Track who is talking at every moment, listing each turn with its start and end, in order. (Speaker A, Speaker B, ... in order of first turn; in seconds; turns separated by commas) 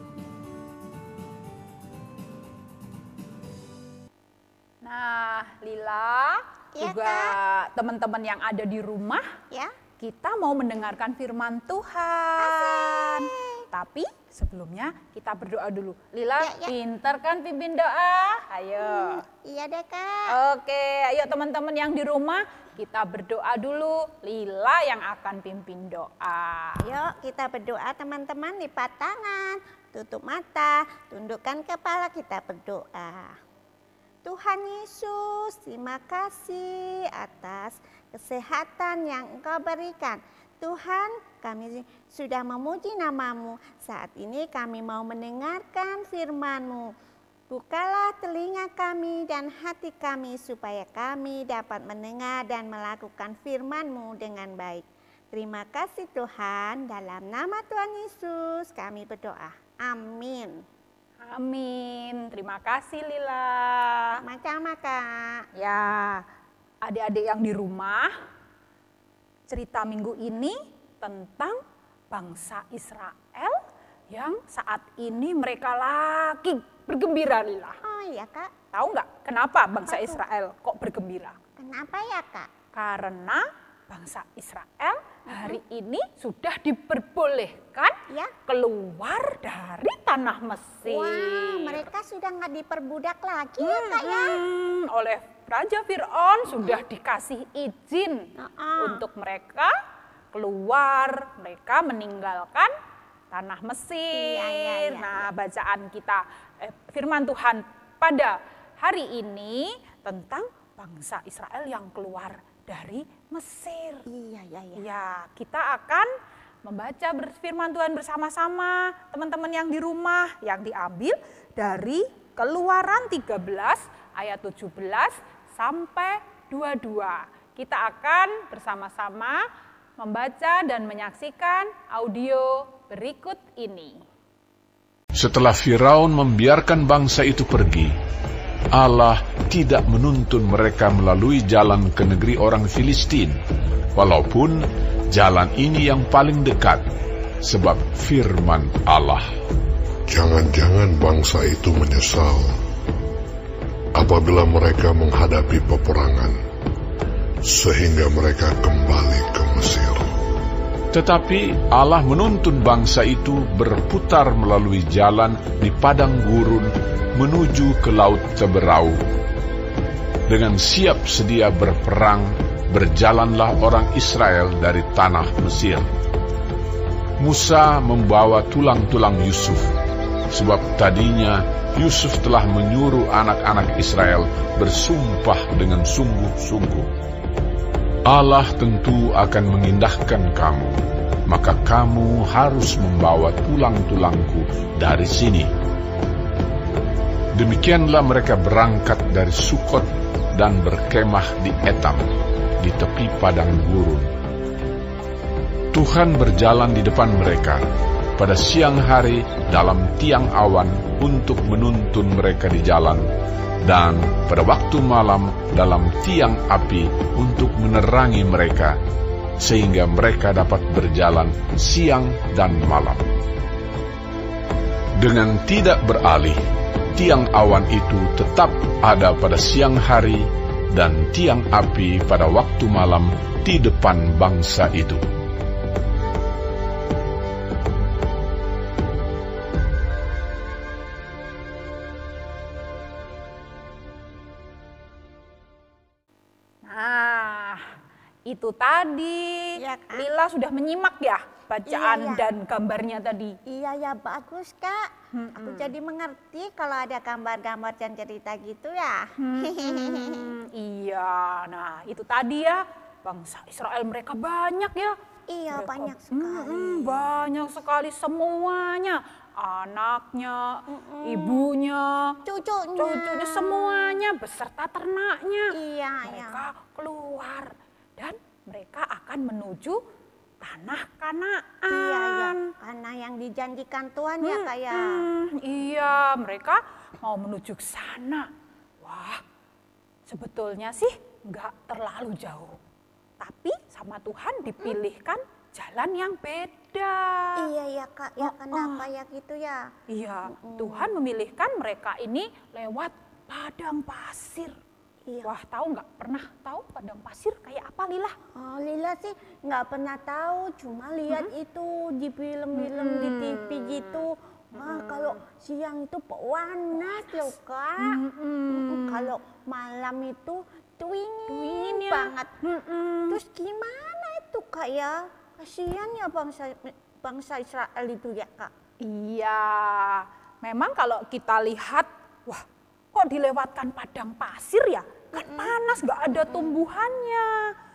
Speaker A: 4.8-9.3, Speaker B: 6.7-7.3, Speaker B: 9.5-9.8, Speaker A: 10.0-19.2, Speaker B: 12.4-13.7, Speaker B: 16.4-16.7, Speaker B: 18.8-20.4, Speaker A: 20.3-26.9, Speaker B: 26.8-33.4, Speaker B: 34.2-46.9, Speaker B: 47.5-60.6, Speaker A: 61.2-64.2, Speaker B: 64.2-65.5, Speaker A: 65.5-66.2, Speaker A: 66.8-68.1, Speaker A: 69.5-71.6, Speaker A: 72.1-77.8, Speaker B: 77.8-78.5, Speaker A: 78.7-81.4, Speaker B: 79.8-80.2, Speaker B: 81.6-82.5, Speaker A: 82.7-91.9, Speaker B: 85.3-85.6, Speaker B: 90.8-94.4, Speaker A: 93.6-99.7, Speaker B: 96.5-96.8, Speaker B: 98.4-99.0, Speaker A: 100.3-102.7, Speaker A: 103.3-114.1, Speaker B: 104.1-105.3, Speaker B: 114.1-114.9, Speaker A: 114.8-116.1, Speaker A: 116.7-129.4, Speaker A: 130.0-134.0, Speaker C: 135.1-137.9, Speaker C: 138.7-143.4, Speaker C: 143.9-146.8, Speaker C: 147.4-149.3, Speaker D: 150.1-152.6, Speaker D: 153.9-156.4, Speaker D: 157.4-160.2, Speaker C: 160.9-169.0, Speaker C: 170.3-175.9, Speaker C: 177.2-179.7, Speaker C: 180.3-186.9, Speaker C: 188.1-195.5, Speaker C: 197.3-204.1, Speaker C: 205.7-207.7, Speaker C: 208.2-213.1, Speaker C: 213.6-218.8, Speaker C: 219.4-223.1, Speaker C: 225.0-226.4, Speaker C: 226.9-235.0, Speaker A: 246.7-247.7, Speaker A: 248.3-253.4, Speaker B: 249.6-250.1, Speaker B: 251.7-252.3, Speaker B: 253.5-260.3, Speaker A: 255.1-255.7, Speaker A: 259.2-264.9, Speaker B: 265.3-267.0, Speaker A: 265.5-272.2, Speaker B: 270.7-271.4, Speaker B: 272.2-273.9, Speaker A: 272.8-279.8, Speaker B: 275.5-276.4, Speaker A: 280.4-282.4, Speaker B: 281.7-285.1, Speaker A: 284.2-288.3, Speaker A: 288.8-289.2, Speaker A: 290.1-292.6, Speaker A: 293.2-297.5, Speaker B: 297.4-299.7, Speaker A: 298.2-298.9, Speaker A: 299.9-304.6, Speaker B: 300.3-301.0, Speaker B: 305.1-305.3, Speaker A: 305.2-308.2, Speaker B: 308.4-322.3, Speaker A: 312.5-315.2, Speaker A: 316.8-319.2, Speaker A: 321.3-323.2, Speaker B: 323.1-328.5, Speaker A: 328.8-337.3, Speaker B: 335.1-335.5, Speaker B: 336.2-336.6